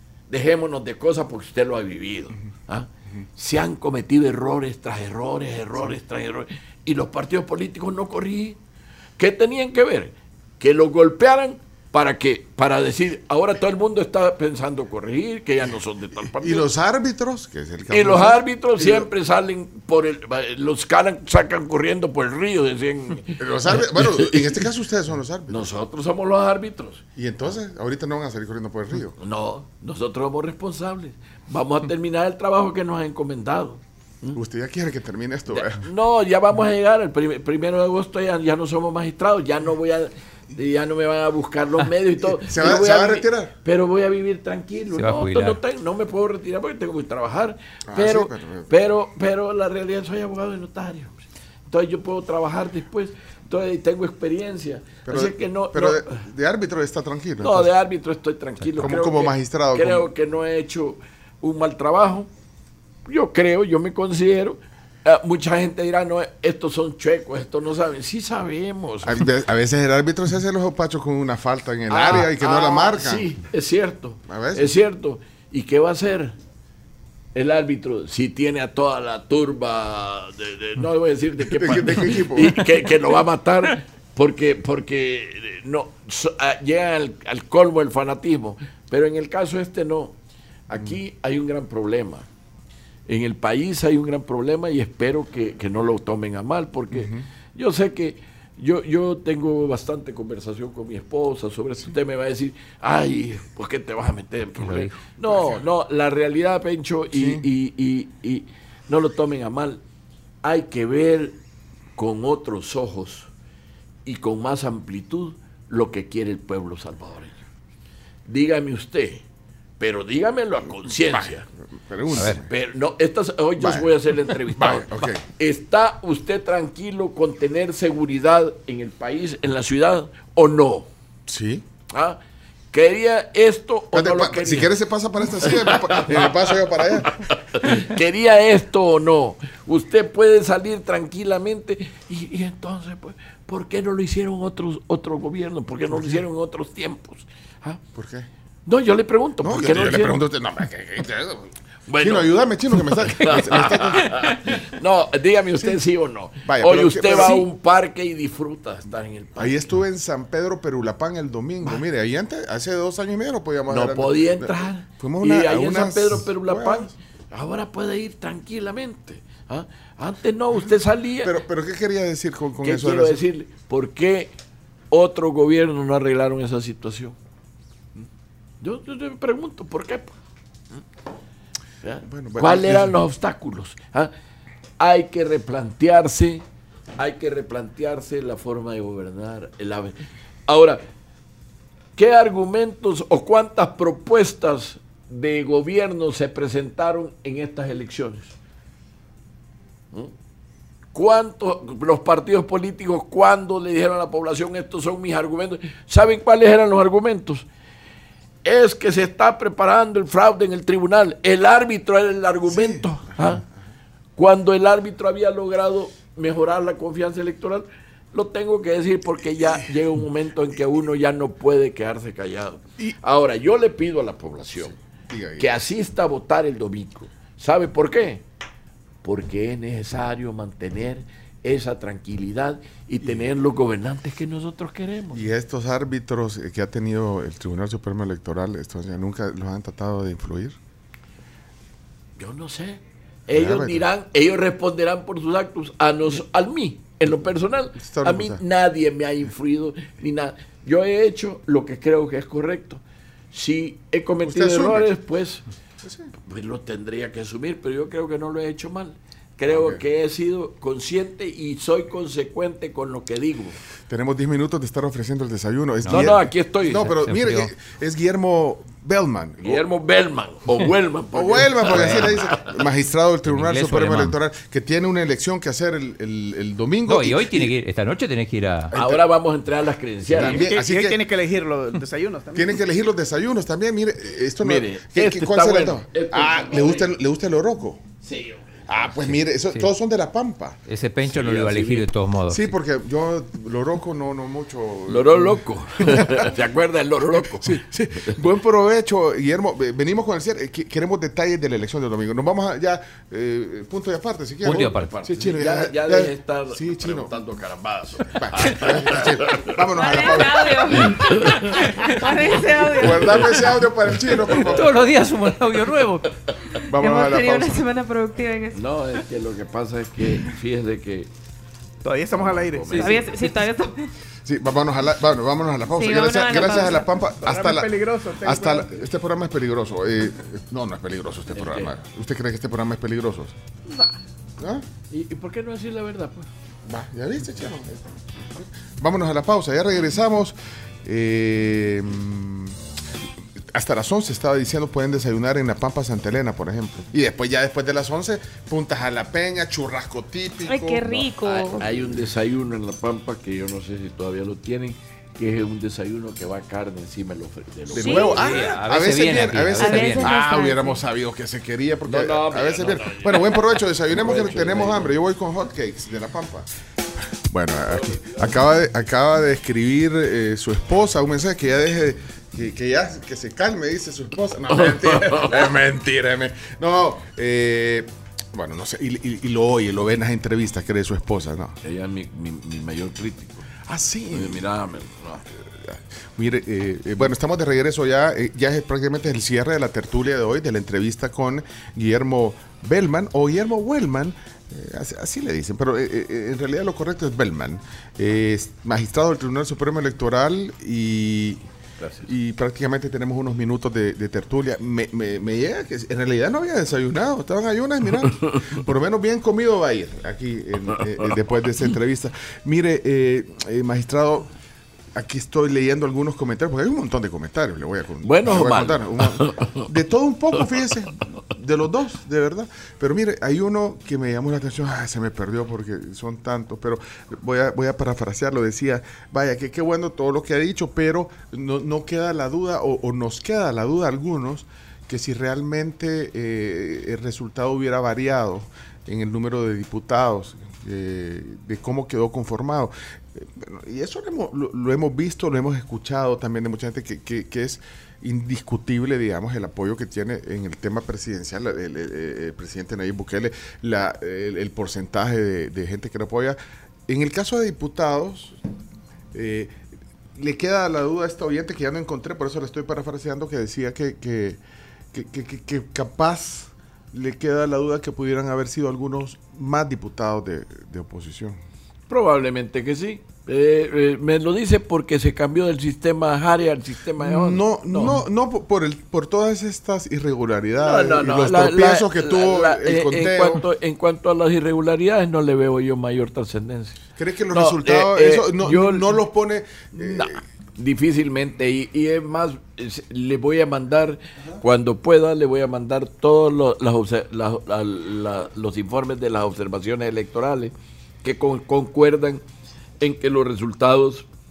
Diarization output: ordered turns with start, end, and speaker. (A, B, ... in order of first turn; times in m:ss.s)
0:00.3-0:08.6 A
0:09.2-0:16.6 A
0:16.3-0:19.1 B
0:17.9-0:24.6 A
0:23.4-0:25.8 B
0:25.5-0:27.0 A
0:27.2-0:29.2 B
0:29.2-0:34.4 A
0:34.3-0:35.9 B
0:35.5-0:56.2 A
0:42.2-0:43.5 B
0:44.9-0:45.6 C
0:47.9-0:48.7 B
0:55.0-0:57.7 B
0:57.4-1:02.3 A
0:58.8-1:00.1 B
1:03.1-1:09.2 A
1:09.0-1:13.3 B
1:11.9-1:16.4 A
1:14.3-1:14.7 B
1:17.3-1:30.1 A
1:21.4-1:22.7 B
1:30.7-1:32.3 A
1:33.1-1:49.8 A
1:36.9-1:37.2 B
1:44.6-1:45.0 C
1:45.3-1:45.5 B
1:47.1-1:47.4 B
1:50.4-1:51.4 A
1:52.0-1:53.3 A
1:54.0-1:57.4 A
1:58.3-1:59.2 A
1:59.8-2:01.5 A
2:01.0-2:02.5 B
2:02.1-2:10.9 A
2:03.6-2:05.2 B
2:11.3-2:11.6 B
2:11.9-2:12.2 A
2:12.7-2:14.7 A
2:13.9-2:17.2 B
2:15.4-2:27.8 A
2:27.9-2:28.3 B
2:28.6-2:30.2 A
2:29.4-2:34.4 B
2:31.9-2:39.5 A
2:36.4-2:37.4 B
2:39.4-2:46.9 B
2:43.7-2:51.3 A
2:51.2-2:53.2 B
2:52.6-2:54.3 A
2:54.9-2:57.2 A
2:58.6-3:00.1 A
3:01.8-3:04.1 A
3:02.0-3:03.0 B
3:04.8-3:06.4 A
3:07.0-3:10.8 A
3:12.0-3:18.3 A
3:20.9-3:27.4 A
3:28.4-3:33.4 A
3:32.5-3:33.4 B
3:34.2-3:44.8 A
3:45.1-3:45.5 B
3:45.4-3:48.2 A
3:49.0-3:55.2 A
3:55.1-4:00.6 B
4:02.2-4:15.4 A
4:03.3-4:03.8 B
4:07.8-4:08.4 B
4:14.2-4:14.9 B
4:15.8-4:16.1 B
4:16.2-4:23.6 A
4:19.5-4:19.8 B
4:23.9-4:29.6 B
4:25.8-4:26.9 A
4:26.7-4:27.5 C
4:29.4-4:32.6 A
4:31.1-4:37.5 B
4:31.7-4:32.1 C
4:33.3-4:34.1 C
4:36.9-4:38.7 C
4:38.7-4:39.0 B
4:38.7-4:40.5 A
4:40.1-4:41.0 B
4:40.2-4:42.6 D
4:42.3-4:47.8 B
4:44.4-4:46.9 A
4:48.0-4:49.0 A
4:48.7-4:50.6 B
4:50.7-4:52.5 C
4:51.1-4:51.8 A
4:52.3-4:56.3 B
4:54.9-4:58.2 A
4:57.1-5:07.1 B
5:04.4-5:05.0 C
5:04.5-5:09.5 A
5:08.0-5:11.6 B
5:09.7-5:13.4 E
5:10.7-5:11.8 A
5:12.6-5:15.0 B
5:14.3-5:16.1 C
5:16.6-5:18.6 E
5:16.7-5:17.7 B
5:18.5-5:21.1 A
5:21.8-5:23.4 D
5:22.1-5:23.1 A
5:22.7-5:23.9 E
5:24.2-5:33.3 B
5:25.7-5:26.9 E
5:27.2-5:28.8 D
5:31.3-5:31.7 A
5:33.7-5:34.0 E
5:34.4-5:34.6 B
5:34.9-5:36.3 A
5:36.6-5:42.6 B
5:43.5-5:52.0 B
5:50.5-5:51.6 E
5:51.6-5:58.3 A
5:57.7-6:06.5 B
5:57.7-5:58.2 E
5:58.1-6:00.1 C
5:59.5-6:00.8 E
6:01.8-6:04.9 A
6:07.1-6:21.6 B
6:07.7-6:08.3 A
6:14.5-6:15.4 A
6:21.6-6:23.5 A
6:23.6-6:24.4 B
6:24.1-6:25.2 A
6:25.2-6:41.4 B
6:41.8-6:42.1 A
6:42.0-6:54.3 B
6:48.2-6:48.5 A
6:54.9-7:36.4 B
6:58.0-6:59.7 A
7:36.9-7:38.4 B
7:39.1-7:39.6 B
7:40.1-7:44.4 B
7:44.9-7:51.4 B
7:51.9-7:58.0 A
7:57.0-8:03.4 B
8:00.6-8:06.8 A
8:07.0-8:10.2 B
8:07.3-8:09.0 A
8:09.7-8:20.5 A
8:21.0-8:22.2 A
8:22.8-8:24.0 A